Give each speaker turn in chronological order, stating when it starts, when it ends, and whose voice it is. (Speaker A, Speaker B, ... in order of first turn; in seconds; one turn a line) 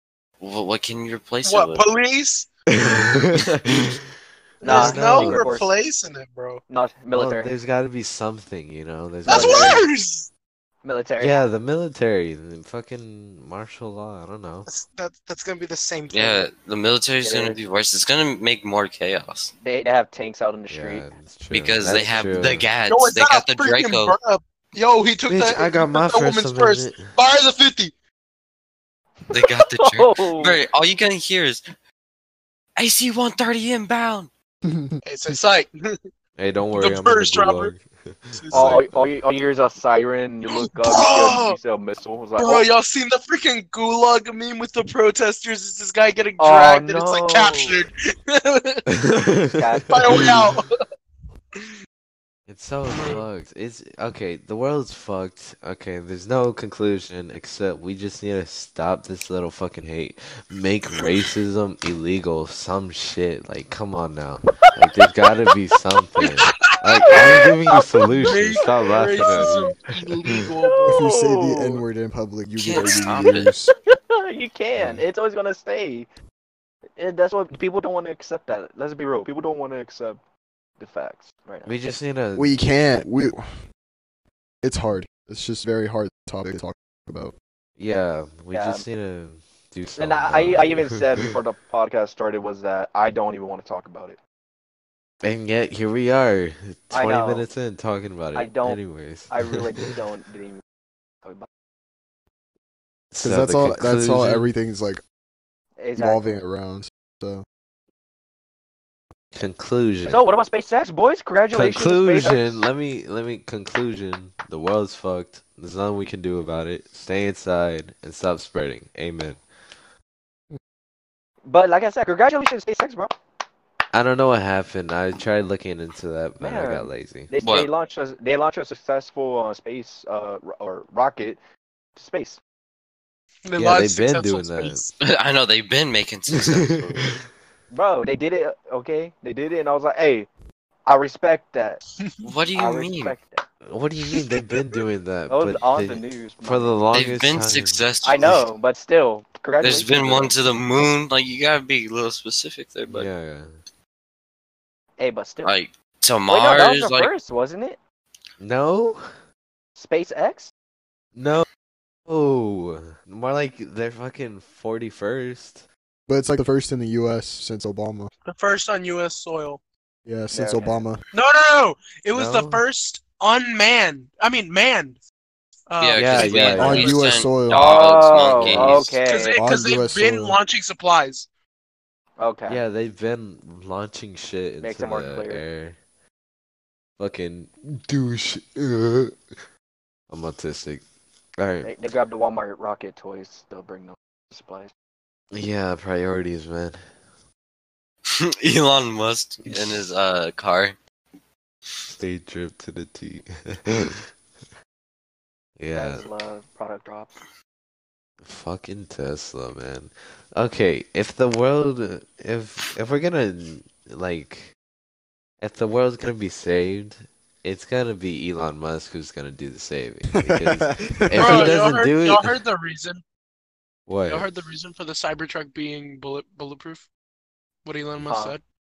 Speaker A: 0.4-1.9
Speaker B: 1.4-3.0
Speaker C: 2.7-4.0
Speaker B: 4.6-6.6
Speaker C: 4.6-5.6
Speaker D: 4.6-5.7
Speaker D: 6.7-7.5
Speaker C: 7.1-9.8
Speaker B: 9.3-10.3
Speaker D: 9.3-9.8
Speaker D: 10.8-11.4
Speaker C: 11.2-14.7
Speaker B: 14.7-16.5
Speaker A: 16.1-19.5
Speaker D: 17.2-17.6
Speaker D: 19.6-21.1
Speaker C: 20.7-22.7
Speaker A: 21.5-24.2
Speaker B: 22.9-27.9
Speaker C: 25.3-27.1
Speaker D: 29.3-30.6
Speaker A: 29.3-31.7
Speaker A: 32.8-34.3
Speaker E: 34.6-35.0
Speaker B: 35.0-35.9
Speaker C: 36.4-39.0
Speaker B: 36.7-37.7
Speaker B: 38.3-38.9
Speaker D: 38.5-42.7
Speaker B: 40.6-41.6
Speaker B: 42.4-48.9
Speaker D: 46.4-47.8
Speaker C: 48.9-50.5
Speaker D: 49.5-50.2
Speaker B: 49.9-50.8
Speaker C: 52.5-70.4
Speaker B: 52.9-53.2
Speaker B: 66.2-71.0
Speaker D: 67.8-68.1
Speaker D: 70.6-71.8
Speaker E: 70.9-73.7
Speaker A: 72.6-73.5
Speaker D: 73.3-76.1
Speaker C: 74.8-75.0
Speaker D: 77.0-80.2
Speaker D: 80.8-82.0
Speaker C: 81.6-82.5
Speaker E: 82.3-83.6
Speaker E: 84.6-87.3
Speaker C: 87.8-90.8
Speaker D: 88.5-88.8
Speaker D: 90.0-94.2
Speaker C: 95.2-99.6
Speaker D: 96.9-97.5
Speaker D: 98.3-100.6
Speaker C: 103.1-104.5
Speaker E: 103.2-105.0
Speaker D: 105.8-106.4
Speaker E: 106.0-107.4
Speaker C: 109.3-110.2
Speaker D: 110.1-112.5
Speaker C: 111.5-119.4
Speaker D: 121.4-123.2
Speaker C: 123.9-127.3
Speaker D: 126.4-131.4
Speaker A: 127.4-127.7
Speaker D: 131.9-132.4
Speaker B: 133.4-134.9
Speaker C: 133.6-134.8
Speaker A: 135.0-137.1
Speaker C: 136.3-137.1
Speaker D: 137.7-140.3
Speaker D: 140.8-141.8
Speaker A: 142.2-143.2
Speaker D: 142.5-143.4
Speaker C: 143.7-148.4
Speaker D: 145.3-146.8
Speaker A: 146.9-148.4
Speaker D: 148.0-150.3
Speaker A: 149.6-153.1
Speaker C: 152.9-153.5
Speaker D: 155.0-155.5
Speaker A: 155.4-157.1
Speaker D: 156.3-157.8
Speaker C: 158.4-159.1
Speaker D: 159.8-160.5
Speaker C: 161.1-161.4
Speaker C: 162.1-165.6
Speaker E: 166.1-168.1
Speaker B: 168.2-169.6
Speaker E: 170.1-171.0
Speaker D: 170.3-170.8
Speaker B: 171.1-175.0
Speaker C: 172.1-172.6
Speaker B: 175.7-177.3
Speaker A: 175.8-179.0
Speaker C: 176.0-176.9
Speaker E: 176.6-177.6
Speaker D: 177.5-179.4
Speaker E: 178.4-180.4
Speaker B: 179.0-181.3
Speaker D: 182.2-182.6
Speaker C: 182.5-185.8
Speaker D: 184.6-185.4
Speaker C: 187.0-189.2
Speaker C: 190.1-190.8
Speaker C: 191.4-191.7
Speaker D: 191.6-194.7
Speaker C: 195.3-196.9
Speaker A: 198.2-200.8
Speaker C: 201.9-204.1
Speaker C: 205.6-206.1
Speaker D: 205.7-207.2
Speaker C: 208.2-214.5
Speaker C: 215.4-222.3
Speaker E: 220.3-221.5
Speaker B: 221.1-223.0
Speaker C: 223.9-224.3
Speaker B: 224.1-226.8
Speaker B: 227.6-228.4
Speaker D: 228.0-228.3